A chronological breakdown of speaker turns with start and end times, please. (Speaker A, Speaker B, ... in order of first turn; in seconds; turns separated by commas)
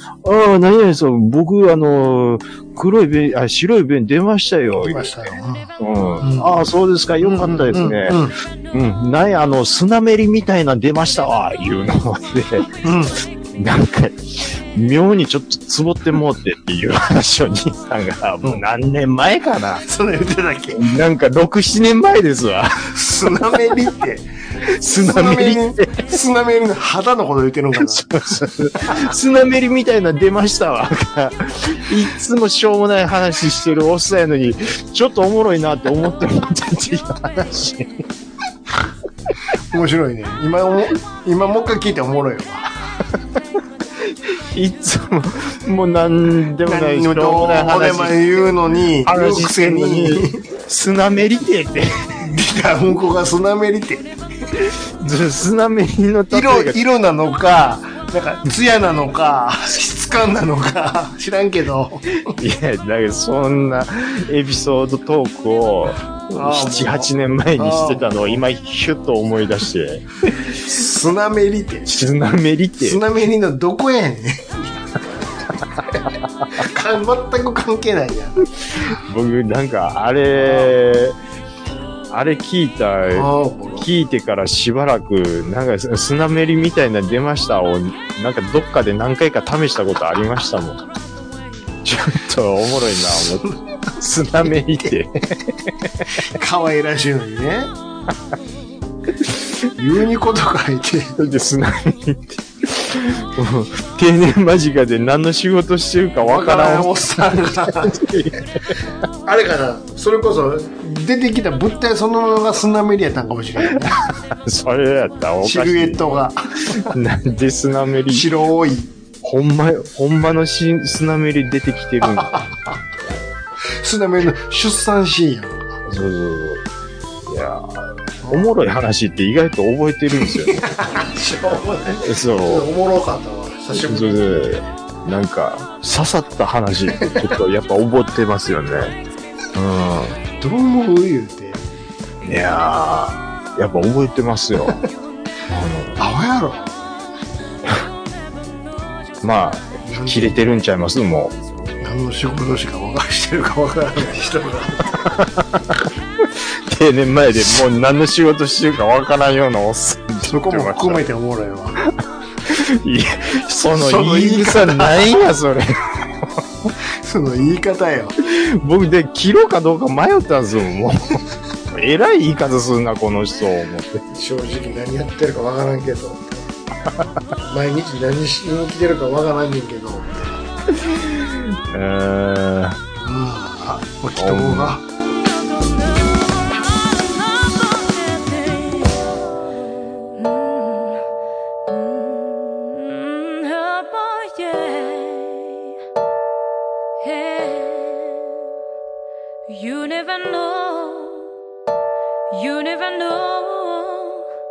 Speaker A: 0.2-12.7, Speaker B: 4.8-6.5, Speaker B: 7.2-8.4, Speaker B: 12.8-13.2, Speaker A: 13.6-19.8, Speaker B: 19.9-20.8, Speaker A: 20.7-22.9, Speaker B: 22.9-24.3, Speaker A: 24.7-26.1, Speaker B: 24.9-28.3, Speaker A: 27.8-38.0, Speaker B: 39.5-42.7, Speaker A: 44.0-52.2, Speaker B: 46.6-50.4, Speaker B: 52.2-54.1, Speaker A: 54.6-56.8, Speaker B: 56.3-62.4, Speaker A: 62.4-70.6, Speaker B: 66.3-68.4, Speaker B: 70.6-71.9, Speaker A: 71.9-73.0, Speaker B: 72.8-74.7, Speaker B: 76.6-78.5, Speaker A: 78.8-81.2, Speaker B: 80.4-80.8, Speaker A: 82.1-90.8, Speaker B: 83.1-83.9, Speaker A: 91.8-95.9, Speaker B: 96.2-97.7, Speaker B: 99.8-101.2, Speaker A: 101.2-106.9, Speaker B: 106.3-108.0, Speaker A: 107.6-108.7, Speaker B: 109.2-114.0, Speaker A: 113.6-116.0, Speaker B: 115.4-116.9, Speaker A: 116.7-118.3, Speaker B: 118.1-118.9, Speaker A: 119.2-122.4, Speaker B: 122.1-122.5, Speaker B: 123.8-125.8, Speaker A: 125.9-126.7, Speaker A: 127.3-130.7, Speaker B: 128.2-128.5, Speaker B: 130.3-134.7, Speaker A: 132.0-132.7, Speaker A: 133.8-139.0, Speaker B: 136.9-137.3, Speaker A: 139.6-140.2, Speaker B: 140.4-141.6, Speaker A: 142.2-144.8, Speaker A: 145.5-146.0, Speaker B: 146.0-146.8, Speaker A: 149.2-151.3, Speaker B: 149.8-150.4, Speaker B: 151.8-155.1, Speaker A: 155.1-161.0, Speaker B: 160.2-161.8, Speaker A: 162.4-166.4, Speaker B: 163.7-165.1, Speaker B: 167.0-168.2, Speaker A: 168.2-174.0, Speaker B: 174.1-176.4, Speaker B: 177.5-180.4, Speaker A: 180.8-182.8, Speaker B: 183.1-184.8, Speaker A: 184.2-184.8, Speaker C: 185.1-189.2, Speaker C: 190.1-191.0, Speaker C: 191.7-195.8, Speaker C: 197.0-198.4, Speaker C: 199.5-201.3, Speaker C: 202.3-204.3